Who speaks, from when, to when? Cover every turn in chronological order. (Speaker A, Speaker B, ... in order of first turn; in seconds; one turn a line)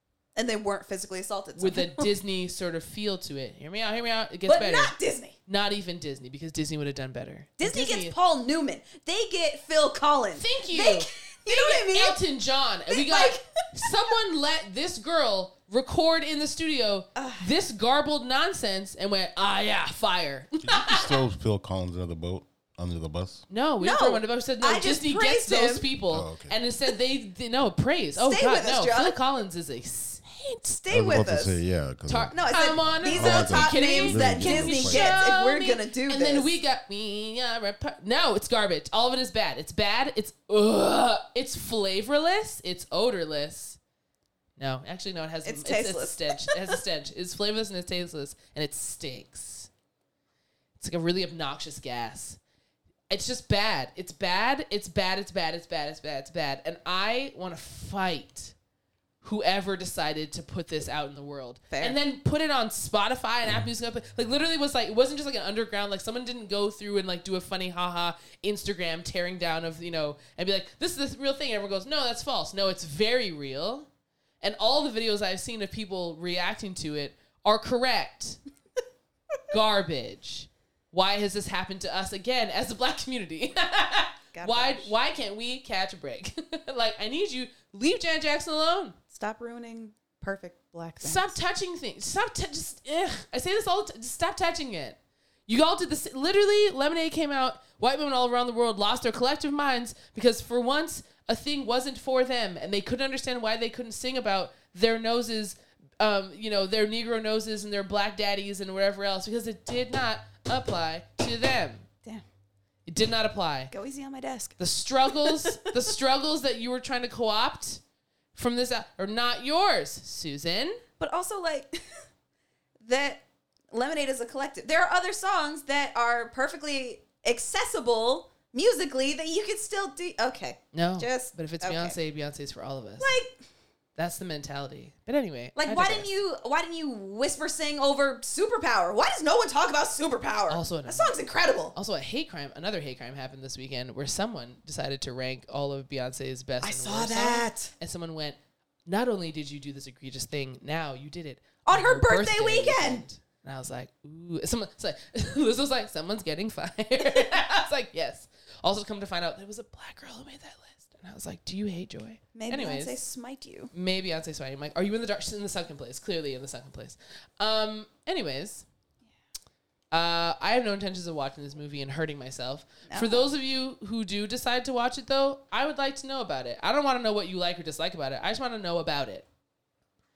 Speaker A: 0.3-2.1
Speaker B: 1.6-4.9
Speaker A: 4.5-5.3
Speaker B: 5.5-8.1
Speaker A: 7.6-12.2
Speaker B: 10.3-21.2
Speaker A: 12.9-13.9
Speaker A: 17.1-17.5
Speaker C: 20.6-23.4
Speaker B: 23.5-30.7
Speaker A: 23.8-25.9
Speaker C: 26.1-26.6
Speaker A: 28.2-29.2
Speaker A: 30.8-31.6
Speaker C: 30.9-35.2
Speaker B: 32.1-43.8
Speaker A: 32.3-36.5
Speaker B: 44.6-49.7
Speaker A: 45.4-46.8
Speaker B: 50.8-52.4
Speaker B: 53.1-58.5
Speaker B: 59.2-73.9
Speaker A: 61.7-62.0
Speaker B: 74.4-78.4
Speaker B: 79.5-89.0
Speaker A: 84.3-84.9
Speaker A: 89.1-91.3
Speaker B: 91.0-111.8
Speaker B: 112.9-113.7
Speaker A: 113.7-114.6
Speaker B: 114.6-117.8
Speaker A: 115.2-115.7
Speaker B: 118.3-120.8
Speaker A: 121.0-121.8
Speaker A: 122.8-131.9
Speaker B: 130.7-133.1
Speaker A: 133.0-133.3
Speaker B: 134.0-136.1
Speaker A: 135.6-141.7
Speaker B: 140.5-141.1
Speaker B: 141.7-163.0
Speaker A: 146.6-147.7
Speaker A: 151.7-153.0
Speaker A: 162.3-163.7
Speaker B: 163.7-168.6
Speaker B: 169.9-179.3
Speaker A: 172.9-173.3